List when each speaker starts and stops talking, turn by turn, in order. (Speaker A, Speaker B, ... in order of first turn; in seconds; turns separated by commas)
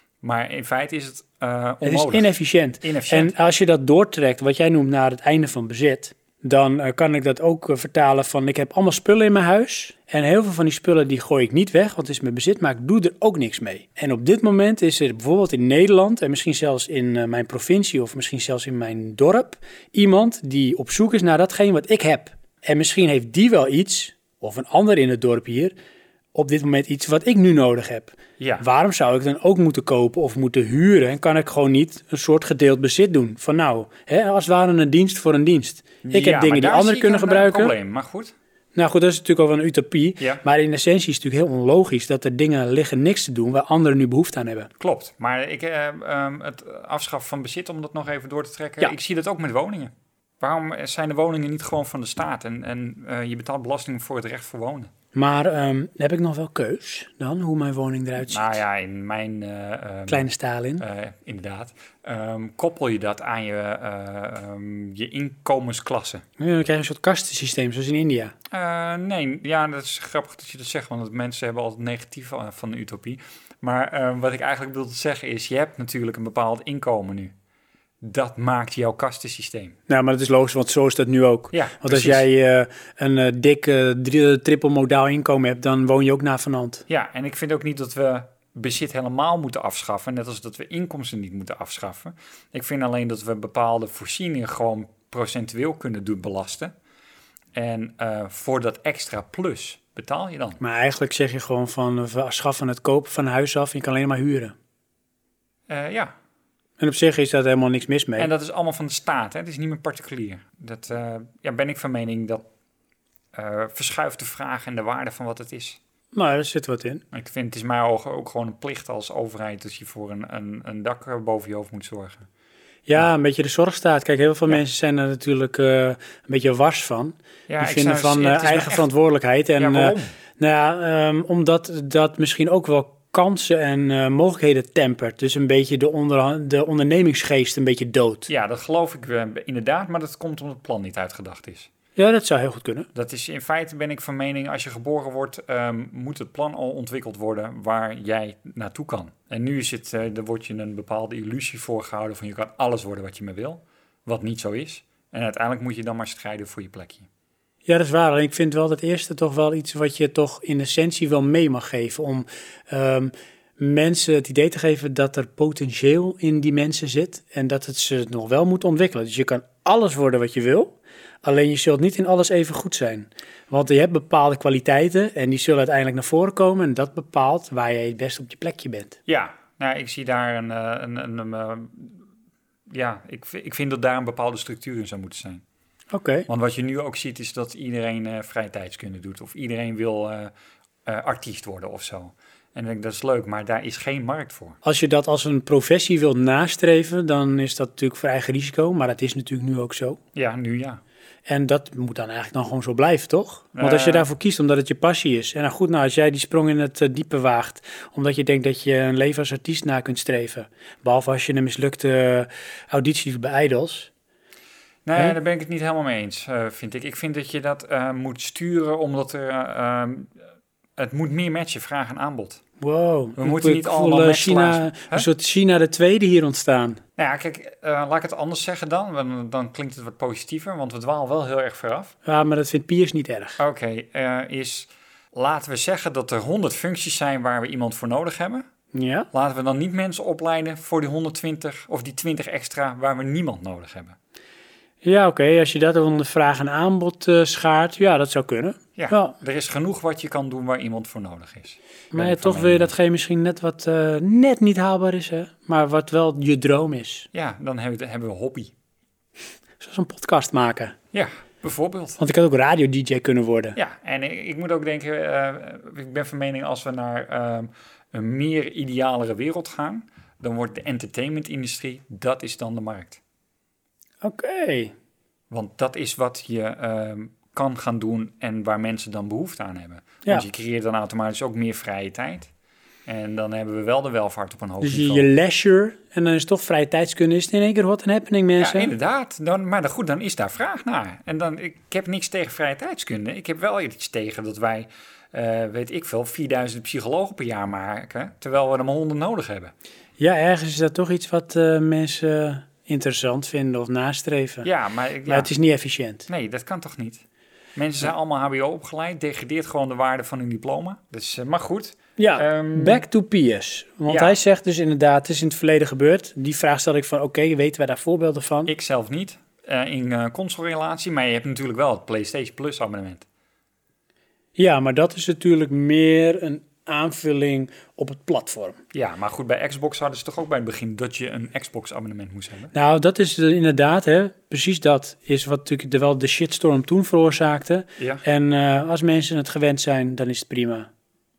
Speaker A: 0.2-2.3, Speaker B: 1.8-25.7, Speaker A: 2.8-3.3, Speaker B: 26.3-37.7, Speaker A: 28.4-28.6, Speaker A: 36.0-38.3, Speaker B: 38.7-44.7, Speaker A: 44.8-54.9, Speaker B: 55.1-58.6, Speaker A: 58.2-66.2, Speaker B: 60.1-60.8, Speaker B: 66.4-68.3, Speaker A: 68.5-77.3, Speaker A: 78.0-79.8, Speaker B: 79.9-86.8, Speaker A: 81.5-82.2, Speaker A: 86.9-96.7, Speaker A: 97.5-100.6, Speaker B: 100.6-104.5, Speaker A: 105.7-106.1, Speaker B: 106.8-108.3, Speaker A: 108.2-112.4, Speaker A: 113.3-115.8, Speaker B: 116.1-117.0, Speaker A: 117.1-122.3, Speaker B: 122.9-138.3, Speaker A: 127.5-128.9, Speaker A: 129.6-130.1, Speaker A: 138.3-141.7, Speaker B: 141.9-142.9, Speaker A: 142.9-157.1, Speaker B: 157.7-179.0, Speaker A: 179.1-182.0, Speaker A: 182.7-185.4, Speaker B: 185.9-186.3, Speaker A: 186.3-190.3, Speaker A: 190.8-194.6, Speaker B: 194.6-200.0, Speaker A: 200.1-200.8, Speaker B: 201.3-213.9, Speaker A: 203.5-204.1, Speaker A: 214.8-220.1, Speaker A: 220.8-222.4, Speaker B: 222.6-226.8, Speaker A: 223.2-225.1, Speaker A: 227.0-231.9, Speaker B: 232.0-233.4, Speaker A: 233.4-238.4, Speaker B: 238.7-239.1, Speaker A: 239.1-244.0, Speaker B: 244.8-249.1, Speaker A: 248.8-252.7, Speaker B: 251.9-257.1, Speaker A: 257.1-258.5, Speaker B: 259.6-260.7, Speaker A: 260.9-262.0, Speaker B: 262.0-263.6, Speaker A: 263.6-273.0, Speaker B: 274.0-274.7, Speaker A: 275.3-282.3, Speaker A: 282.9-285.1, Speaker B: 284.6-288.7, Speaker A: 288.4-299.5, Speaker B: 300.0-304.5, Speaker A: 304.4-305.3, Speaker B: 305.1-306.1, Speaker A: 306.1-307.0, Speaker A: 307.5-312.8, Speaker B: 312.0-318.5, Speaker A: 313.9-314.2, Speaker A: 318.4-323.1, Speaker B: 324.4-328.6, Speaker A: 328.7-332.5, Speaker B: 332.5-340.7, Speaker A: 337.8-338.0